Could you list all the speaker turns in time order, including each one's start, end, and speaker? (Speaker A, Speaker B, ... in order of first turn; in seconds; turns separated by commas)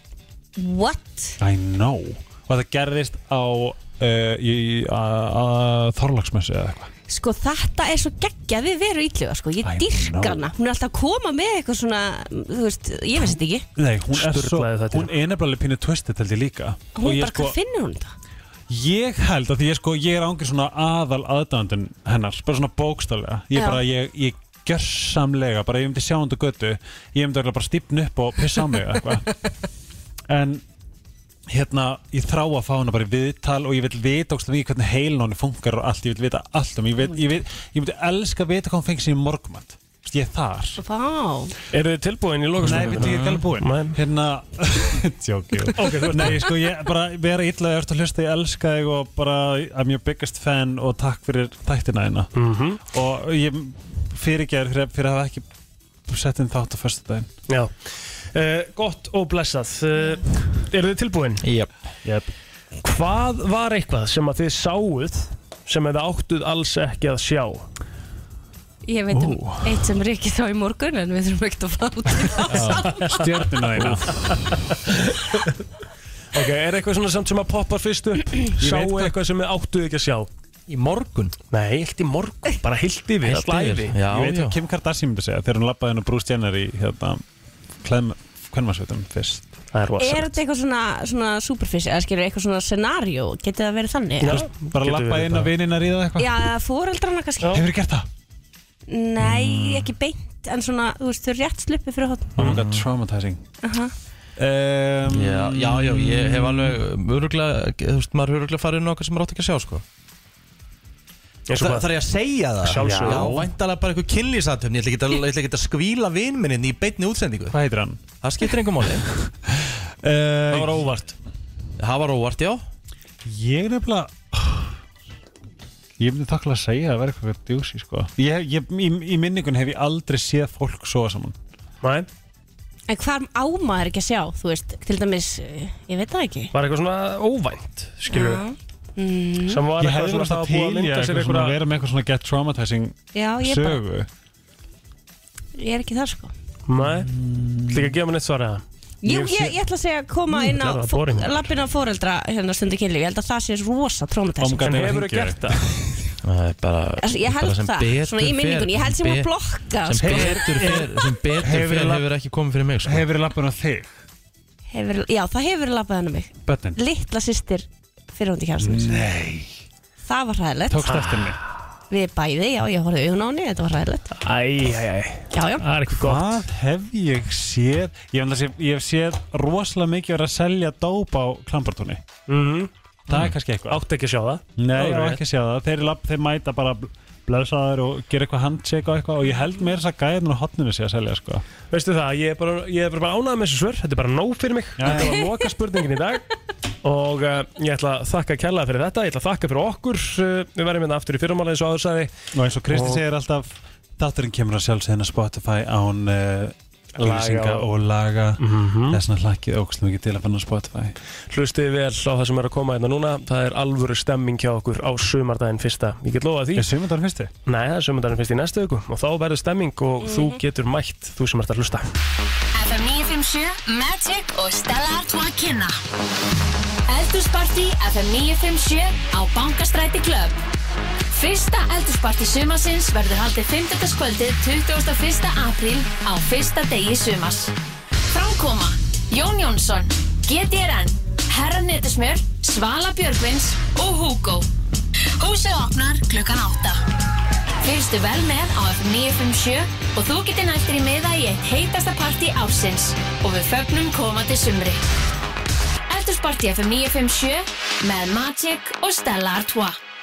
Speaker A: 0.6-1.4, Speaker B: 1.4-6.9, Speaker A: 7.1-13.7, Speaker B: 9.6-10.5, Speaker B: 13.8-17.6, Speaker C: 14.1-15.1, Speaker A: 17.0-18.1, Speaker B: 18.7-29.3, Speaker A: 23.6-23.8, Speaker B: 30.3-30.6, Speaker B: 31.5-40.8, Speaker A: 40.8-41.5, Speaker C: 41.7-44.0, Speaker B: 42.6-55.5, Speaker D: 42.7-43.4, Speaker C: 45.8-46.5, Speaker C: 52.4-52.8, Speaker B: 56.1-57.3, Speaker C: 57.5-61.4, Speaker D: 61.4-61.7, Speaker B: 62.0-62.3, Speaker C: 62.8-67.7, Speaker A: 68.9-72.8, Speaker B: 69.1-69.9, Speaker D: 72.5-72.9, Speaker C: 72.5-73.3, Speaker B: 73.0-74.4, Speaker C: 73.8-75.5, Speaker C: 76.3-80.3, Speaker D: 80.7-81.4, Speaker C: 81.5-84.0, Speaker D: 83.2-84.6, Speaker B: 84.0-87.2, Speaker B: 87.8-89.5, Speaker C: 89.7-90.4, Speaker A: 90.0-94.4, Speaker C: 94.2-95.5, Speaker B: 94.2-96.5, Speaker A: 96.2-97.6, Speaker C: 97.4-97.7, Speaker B: 97.5-98.1, Speaker A: 98.9-102.4, Speaker B: 99.3-99.8, Speaker B: 102.4-103.5, Speaker D: 102.4-102.8, Speaker A: 103.6-103.9, Speaker B: 104.4-106.8, Speaker D: 105.1-109.8, Speaker C: 111.5-111.9, Speaker D: 111.6-117.5, Speaker C: 112.6-113.3, Speaker B: 112.8-113.5, Speaker B: 117.5-118.0, Speaker D: 118.2-119.1, Speaker B: 119.5-120.9, Speaker C: 120.5-121.1, Speaker D: 121.8-122.6, Speaker B: 123.2-124.8, Speaker B: 126.0-131.4, Speaker C: 131.8-132.1, Speaker A: 132.9-136.5, Speaker C: 136.5-138.4, Speaker A: 138.1-139.7, Speaker C: 139.5-141.6, Speaker B: 139.8-144.1, Speaker A: 143.1-143.8, Speaker A: 145.6-146.3, Speaker C: 146.7-147.1, Speaker B: 146.8-148.0, Speaker C: 147.7-148.6, Speaker A: 149.0-154.9, Speaker B: 149.1-149.6, Speaker C: 150.3-151.5, Speaker B: 154.4-155.9, Speaker C: 154.6-155.6, Speaker D: 156.2-159.3, Speaker A: 157.0-160.8, Speaker D: 159.8-163.1, Speaker B: 160.0-162.1, Speaker B: 162.8-163.9, Speaker A: 164.7-169.1, Speaker B: 166.5-166.8, Speaker B: 168.6-169.6, Speaker A: 170.0-171.0, Speaker B: 170.7-171.4, Speaker C: 170.9-171.1, Speaker A: 171.9-174.2, Speaker C: 174.2-176.4, Speaker A: 175.3-175.7, Speaker B: 176.0-182.0, Speaker C: 182.3-182.7, Speaker B: 183.1-183.8, Speaker C: 183.7-185.2, Speaker B: 184.6-191.4, Speaker C: 191.7-196.3, Speaker B: 194.8-195.2, Speaker C: 196.8-202.1, Speaker B: 202.3-210.9, Speaker C: 202.7-203.0, Speaker C: 207.0-207.7, Speaker C: 208.4-209.0, Speaker C: 211.3-216.7, Speaker B: 216.6-217.3, Speaker C: 217.5-221.9, Speaker A: 220.0-220.4, Speaker E: 222.6-225.8, Speaker E: 226.9-230.4, Speaker E: 231.1-237.5, Speaker E: 238.1-244.5, Speaker E: 245.2-246.8, Speaker E: 247.6-254.8, Speaker E: 255.9-259.8